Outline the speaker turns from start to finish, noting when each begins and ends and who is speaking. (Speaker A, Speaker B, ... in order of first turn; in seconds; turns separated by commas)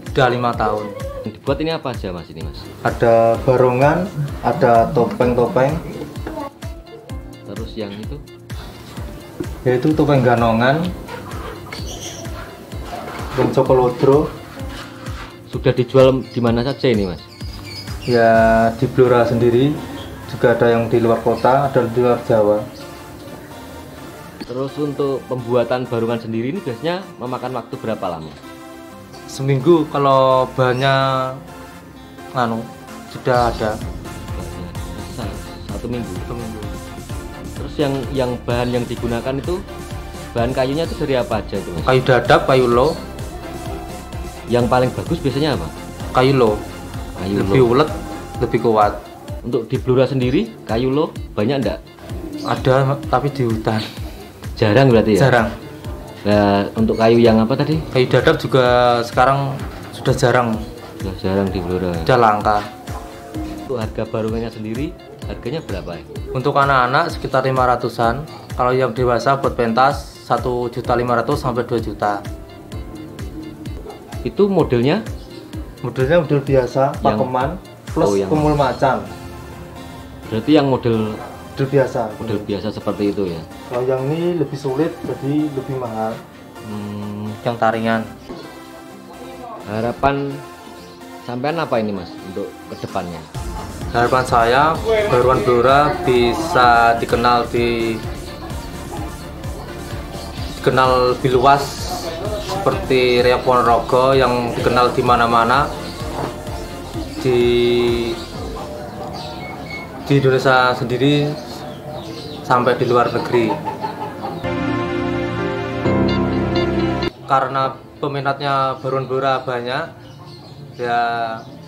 Speaker A: 0.1-0.9, Speaker B: 1.3-2.7, Speaker A: 2.9-5.8, Speaker B: 7.5-8.2, Speaker A: 9.7-10.9, Speaker A: 13.4-14.3, Speaker B: 15.5-17.3, Speaker A: 18.1-19.8, Speaker A: 20.3-22.6, Speaker B: 24.5-28.4, Speaker A: 29.3-31.4, Speaker A: 32.4-33.8, Speaker B: 34.4-36.3, Speaker A: 36.3-36.7, Speaker B: 37.6-39.6, Speaker B: 40.3-42.0, Speaker A: 41.9-42.9, Speaker B: 44.5-45.7, Speaker A: 46.1-46.6, Speaker B: 47.2-47.7, Speaker A: 47.4-49.0, Speaker B: 49.4-51.8, Speaker A: 52.5-53.9, Speaker B: 54.6-55.4, Speaker A: 55.2-55.5, Speaker B: 56.2-57.9, Speaker A: 57.9-60.6, Speaker B: 61.0-62.1, Speaker A: 62.1-62.6, Speaker B: 63.7-66.1, Speaker A: 66.3-72.2, Speaker B: 74.2-75.0, Speaker A: 75.8-79.1, Speaker B: 77.0-77.3, Speaker B: 78.0-78.5, Speaker B: 80.3-81.2, Speaker A: 81.6-82.5, Speaker B: 82.2-83.5, Speaker A: 83.7-86.2, Speaker B: 86.6-87.4, Speaker A: 87.4-88.1, Speaker B: 89.7-90.4, Speaker B: 91.2-93.3, Speaker A: 93.9-98.0, Speaker A: 100.6-105.7, Speaker A: 107.2-108.2, Speaker A: 110.1-111.5, Speaker A: 112.5-113.6, Speaker A: 117.3-119.9, Speaker A: 120.8-121.5